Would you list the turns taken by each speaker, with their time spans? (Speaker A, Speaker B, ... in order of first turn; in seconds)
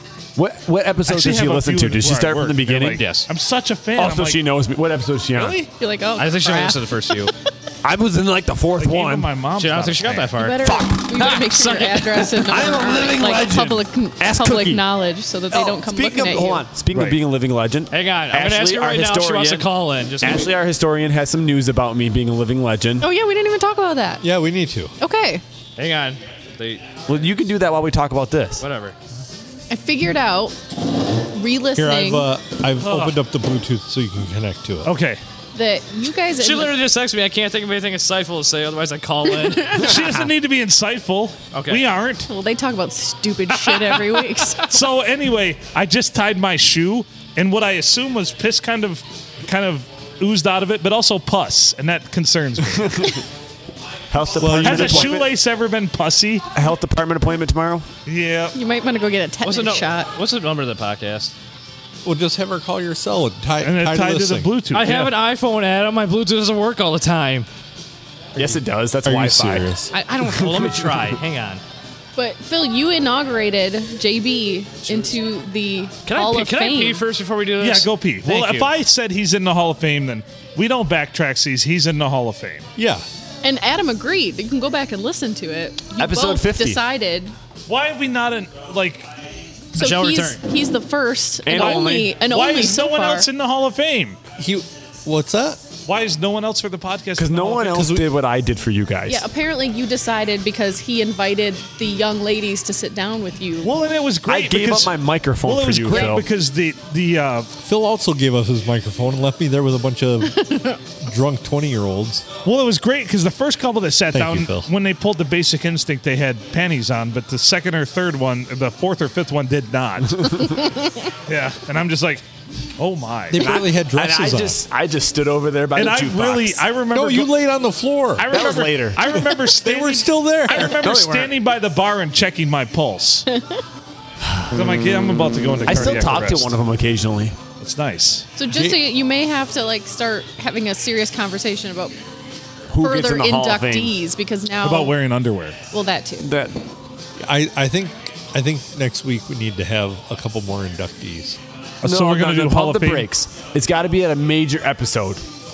Speaker A: 0.3-3.0, 4.0-5.6, 7.8-9.3, 12.3-14.8, 15.5-23.1, 27.1-28.6, 52.8-53.1, 54.1-55.3, 56.5-57.9, 68.3-71.1, 86.0-86.8, 91.4-92.1, 97.2-99.2, 104.3-106.2, 123.3-126.6, 128.3-129.0, 130.7-131.3, 134.2-134.6, 135.6-137.4, 142.7-143.9, 146.2-146.6, 151.8-155.2
Speaker B: 1.1-4.4, 5.3-5.7, 8.8-10.3, 16.9-17.2, 32.8-33.1, 34.8-35.2, 39.7-42.3, 44.6-53.2, 54.6-56.5, 58.0-58.5, 63.6-65.1, 77.6-82.7, 87.7-89.1, 91.5-94.2, 95.8-97.9, 103.6-107.5, 112.4-120.5, 121.2-122.2, 122.8-123.5, 125.7-127.3, 128.2-133.3, 134.5-136.5, 137.6-138.3, 144.6-145.6, 151.8-153.1
Speaker C: 2.9-3.3, 6.2-7.3, 9.6-12.2, 17.9-20.5, 25.8-26.9, 28.6-28.9, 36.4-40.1, 41.5-41.8, 59.4-61.3, 64.7-67.5, 69.9-71.6, 76.0-78.7, 89.7-90.4
Speaker D: 5.8-7.3, 10.4-16.6, 23.0-24.2, 25.0-25.4, 29.7-30.6, 31.2-32.3, 35.5-36.8, 39.4-39.9, 42.3-44.8, 58.5-60.1, 72.2-77.0, 83.4-87.3, 89.8-93.3, 99.1-103.7, 105.9-106.2, 110.4-110.7, 138.3-141.9, 142.8-144.9, 145.7-146.3
Speaker E: 24.2-24.9, 31.8-34.9, 54.4-55.2, 62.0-64.5, 69.0-69.9, 82.8-83.0, 94.4-95.6, 97.8-98.0, 107.6-112.2, 114.1-114.7, 123.3-124.6, 126.9-128.3, 129.1-130.8, 138.5-138.8, 147.2-151.4